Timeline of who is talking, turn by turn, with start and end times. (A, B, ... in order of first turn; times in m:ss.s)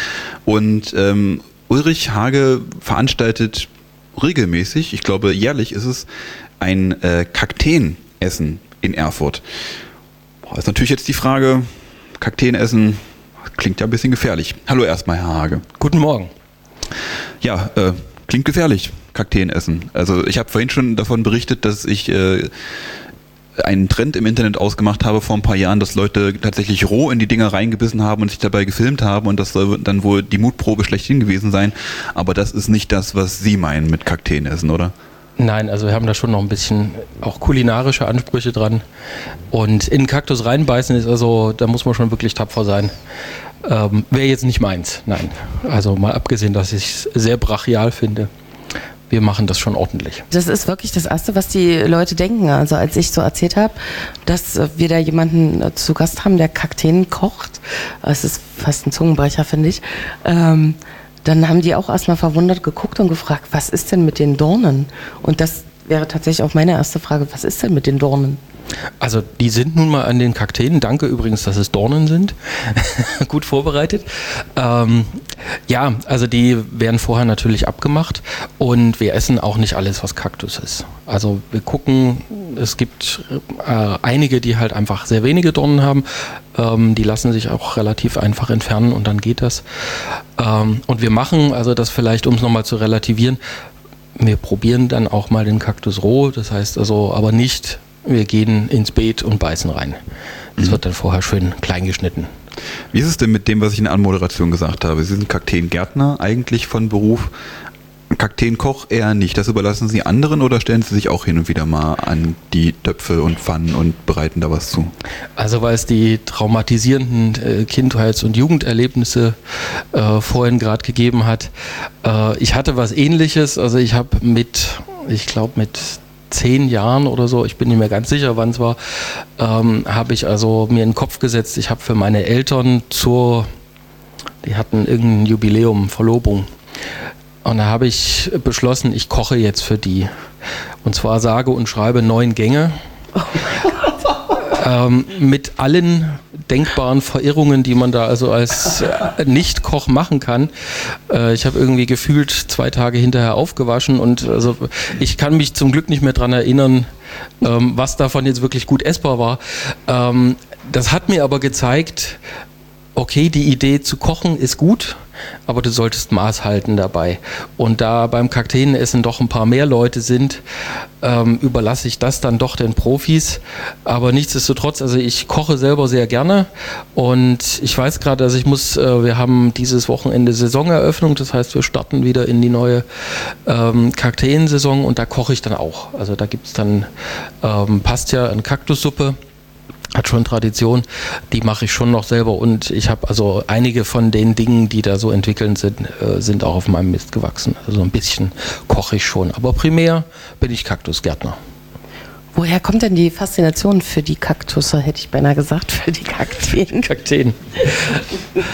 0:00.4-0:06.1 A
0:06.6-0:09.4 A
0:10.5-0:15.6 A
0:15.8-0:16.3 B
0:17.4-0:22.5 A
0:23.6-0:34.9 A
0:35.4-0:38.8 B
0:39.5-0:42.9 B
0:43.6-0:48.3 B
0:49.1-0:50.2 B
0:50.3-1:08.4 C
1:09.0-1:33.4 B
1:34.2-1:40.0 B
1:40.6-1:42.3 B
1:42.9-1:47.3 A
1:48.1-1:54.9 A
1:55.4-2:13.5 B
2:14.4-2:16.5 B
2:17.4-2:20.1 B
2:20.8-2:22.8 B
2:23.3-2:23.7 C
2:24.3-2:36.9 B
2:37.4-2:42.2 B
2:42.9-2:50.4 B
2:51.0-3:06.9 B
3:07.4-3:09.2 B
3:09.9-3:21.4 B
3:22.3-3:26.9 C
3:26.9-3:28.0 B